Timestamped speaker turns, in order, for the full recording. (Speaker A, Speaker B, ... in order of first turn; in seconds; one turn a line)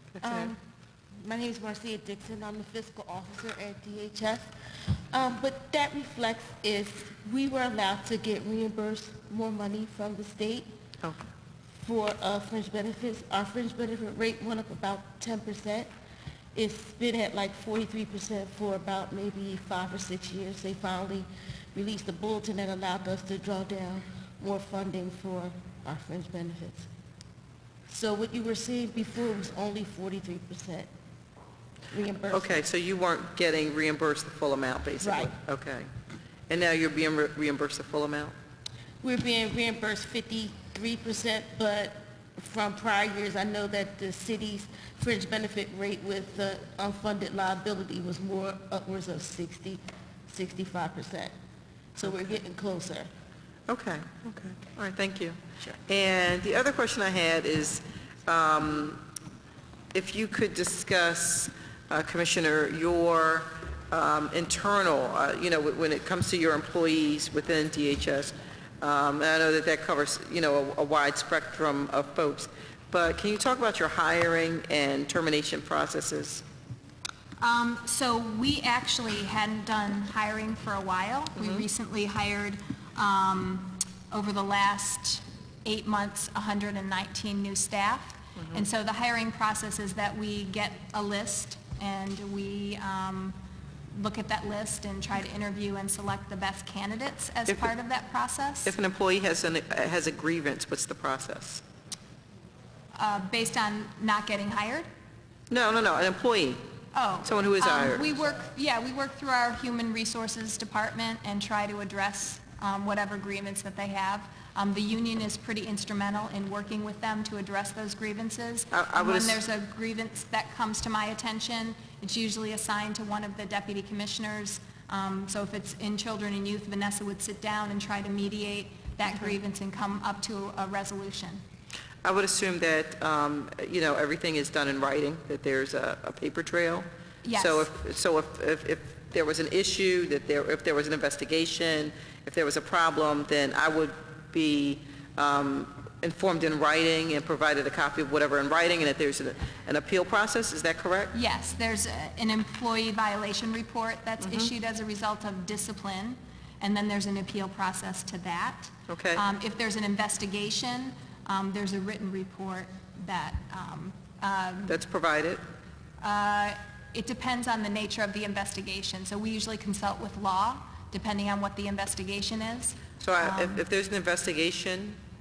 Speaker A: 0.2-0.6
Speaker B: 0.2-0.5
Speaker A: 1.2-10.7
Speaker A: 11.8-15.9
Speaker A: 16.5-26.9
Speaker A: 27.9-30.9
Speaker A: 31.9-32.6
Speaker B: 32.3-35.9
Speaker A: 35.0-35.3
Speaker B: 36.5-38.3
Speaker A: 39.0-51.3
Speaker A: 52.0-53.1
Speaker B: 53.7-59.0
Speaker B: 59.9-76.4
Speaker C: 77.4-93.4
Speaker B: 81.4-81.6
Speaker C: 93.9-98.7
Speaker B: 98.7-101.6
Speaker C: 102.9-104.8
Speaker B: 105.5-106.6
Speaker C: 106.9-131.4
Speaker B: 107.2-108.0
Speaker B: 118.7-119.4
Speaker B: 132.0-151.1
Speaker C: 137.2-137.7
Speaker C: 151.1-164.8
Speaker B: 154.2-154.5
Speaker B: 158.9-159.2
Speaker B: 164.7-165.4
Speaker C: 166.0-173.6
Speaker B: 173.0-175.0